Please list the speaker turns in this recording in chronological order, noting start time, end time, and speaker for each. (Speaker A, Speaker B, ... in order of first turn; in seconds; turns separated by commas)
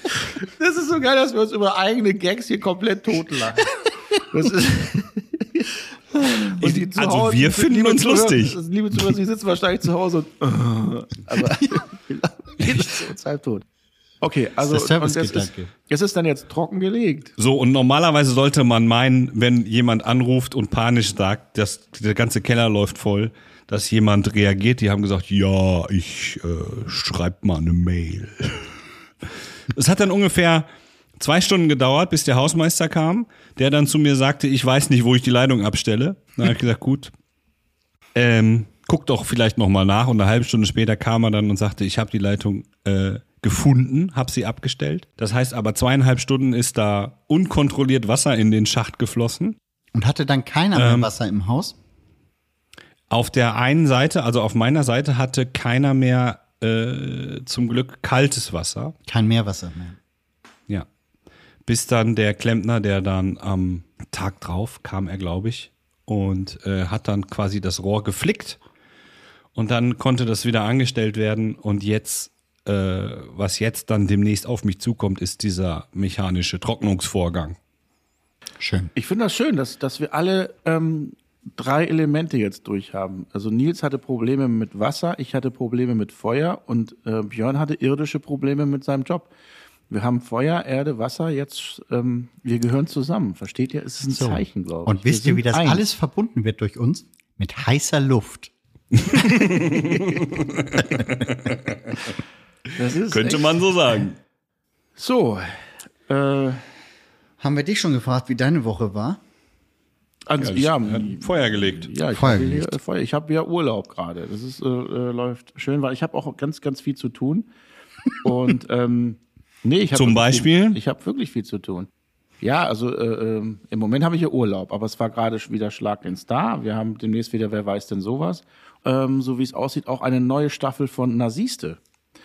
Speaker A: 0.4-3.6, Speaker A: 4.3-13.6, Speaker B: 6.6-8.6, Speaker A: 14.2-17.3, Speaker C: 14.6-15.7, Speaker B: 17.4-28.7, Speaker B: 29.7-30.7, Speaker B: 31.2-37.1, Speaker B: 38.1-49.6, Speaker C: 49.9-51.8, Speaker B: 50.8-51.1, Speaker B: 53.1-59.0, Speaker C: 59.1-60.0, Speaker B: 61.6-68.6, Speaker B: 69.5-77.6, Speaker C: 78.6-78.9, Speaker A: 79.0-89.3, Speaker A: 89.9-95.9, Speaker C: 94.0-98.5, Speaker C: 99.0-99.3, Speaker B: 99.2-101.6, Speaker A: 102.8-103.6, Speaker B: 103.1-104.2, Speaker A: 105.0-106.6, Speaker C: 107.4-109.2, Speaker A: 110.3-117.5, Speaker B: 110.4-111.9, Speaker C: 112.1-112.8, Speaker A: 118.2-121.9, Speaker B: 119.9-120.8, Speaker A: 122.4-131.8